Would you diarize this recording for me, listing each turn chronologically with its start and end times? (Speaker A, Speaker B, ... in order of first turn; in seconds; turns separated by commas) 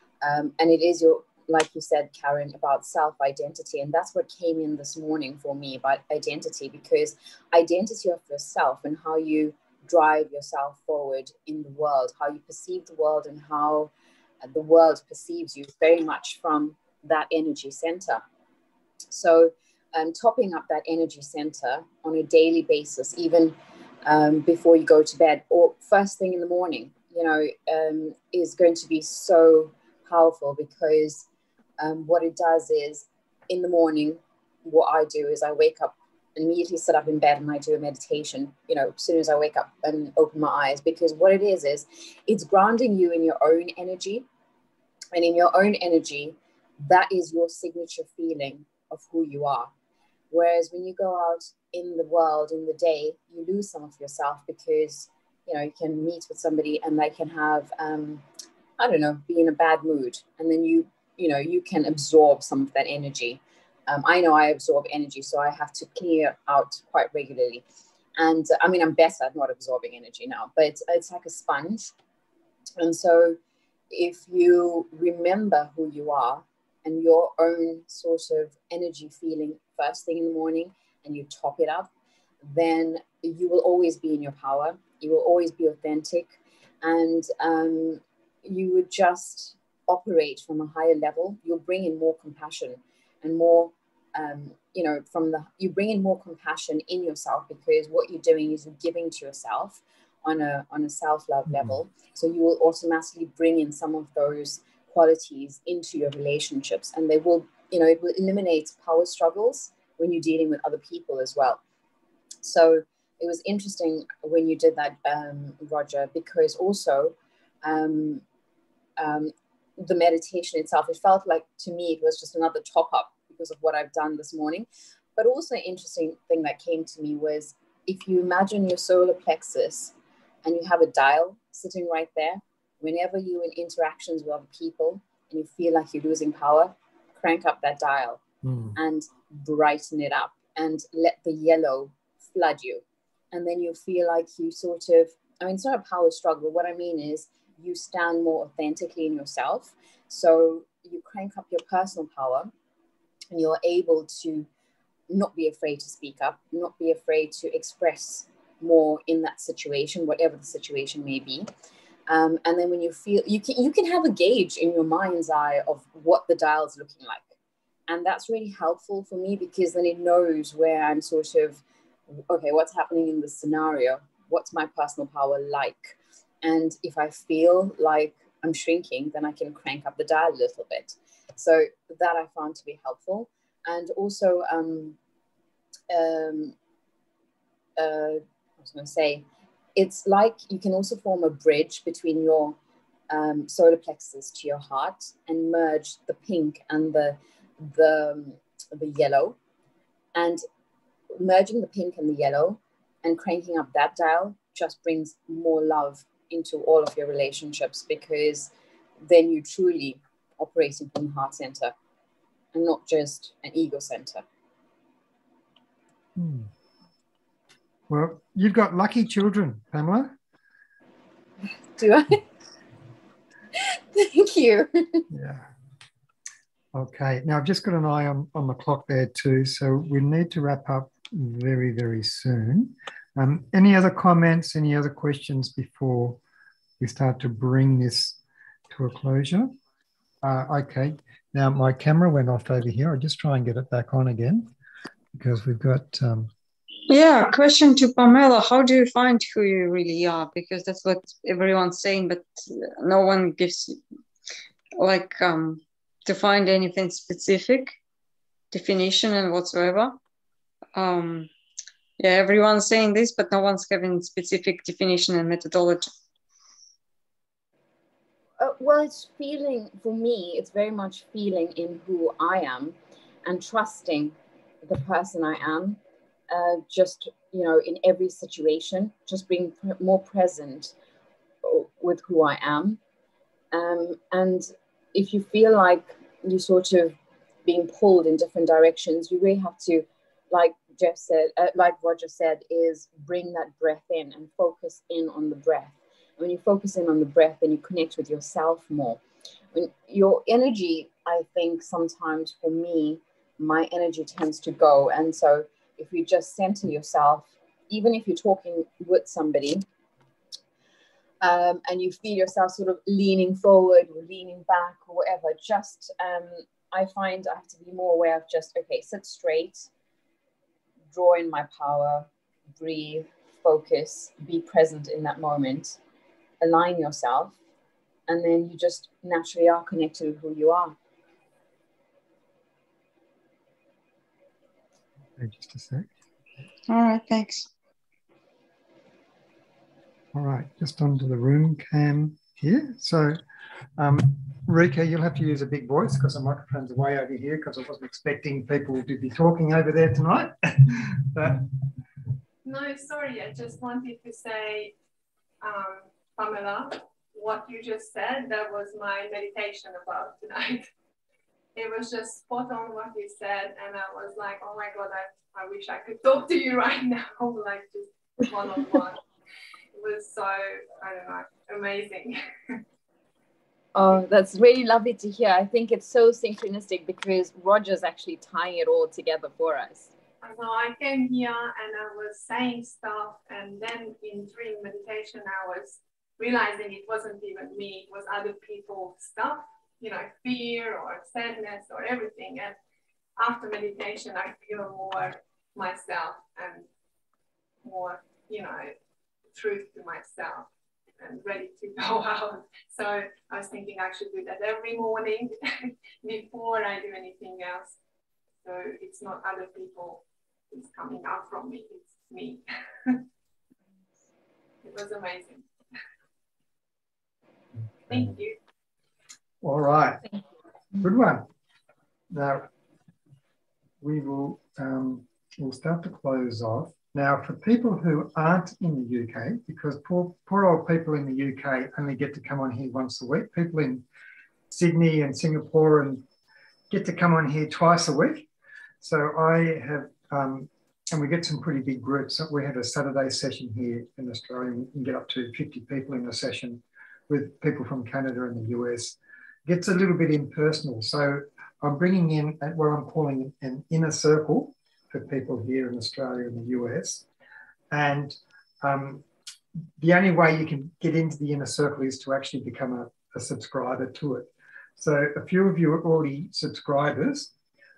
Speaker A: 0.2-13.9, Speaker A: 14.4-18.2, Speaker A: 19.1-31.3, Speaker A: 31.8-44.3, Speaker A: 45.1-49.7, Speaker A: 50.3-58.2, Speaker A: 58.8-67.6, Speaker A: 68.2-71.9, Speaker A: 72.8-73.4, Speaker A: 73.9-81.9, Speaker A: 82.4-111.6, Speaker B: 101.5-101.8, Speaker A: 112.4-118.2, Speaker A: 119.0-138.2, Speaker B: 138.4-138.8, Speaker A: 138.8-152.5, Speaker A: 153.3-154.5, Speaker A: 155.1-161.5, Speaker A: 162.1-167.3, Speaker A: 167.9-184.9, Speaker A: 185.9-186.5, Speaker A: 187.8-192.6, Speaker A: 193.1-199.3, Speaker A: 200.1-200.4, Speaker A: 201.1-208.5, Speaker A: 209.0-211.7, Speaker A: 212.5-214.2, Speaker B: 216.2-216.5, Speaker B: 217.9-220.1, Speaker A: 221.8-222.2, Speaker A: 223.6-225.1, Speaker B: 225.1-225.5, Speaker B: 226.7-236.2, Speaker B: 236.8-238.2, Speaker B: 238.7-239.5, Speaker B: 240.2-244.5, Speaker B: 245.1-246.3, Speaker C: 246.9-253.8, Speaker C: 254.8-257.8, Speaker C: 258.5-260.0, Speaker C: 260.7-261.3, Speaker C: 262.0-265.9, Speaker A: 268.4-280.7, Speaker A: 281.4-282.8, Speaker A: 283.5-299.0, Speaker A: 299.5-309.6, Speaker A: 311.2-319.7, Speaker A: 320.9-322.1, Speaker A: 322.6-325.8, Speaker A: 326.4-327.4, Speaker A: 328.1-330.8, Speaker B: 335.2-335.9, Speaker C: 336.7-337.5, Speaker B: 340.1-343.2, Speaker B: 343.8-351.4, Speaker D: 352.4-354.7, Speaker D: 355.4-360.7, Speaker D: 361.6-369.0, Speaker D: 369.7-372.6, Speaker A: 373.7-379.9, Speaker D: 380.2-392.6, Speaker D: 393.2-396.6, Speaker D: 397.6-398.7, Speaker D: 399.3-407.8, Speaker D: 408.4-413.0, Speaker D: 414.6-415.4, Speaker D: 417.9-418.4, Speaker B: 419.4-420.1, Speaker B: 420.8-421.3, Speaker B: 422.1-422.5, Speaker B: 423.8-433.8, Speaker B: 434.5-436.0, Speaker B: 436.7-438.3, Speaker B: 438.8-457.1, Speaker B: 457.7-459.1, Speaker B: 459.8-467.3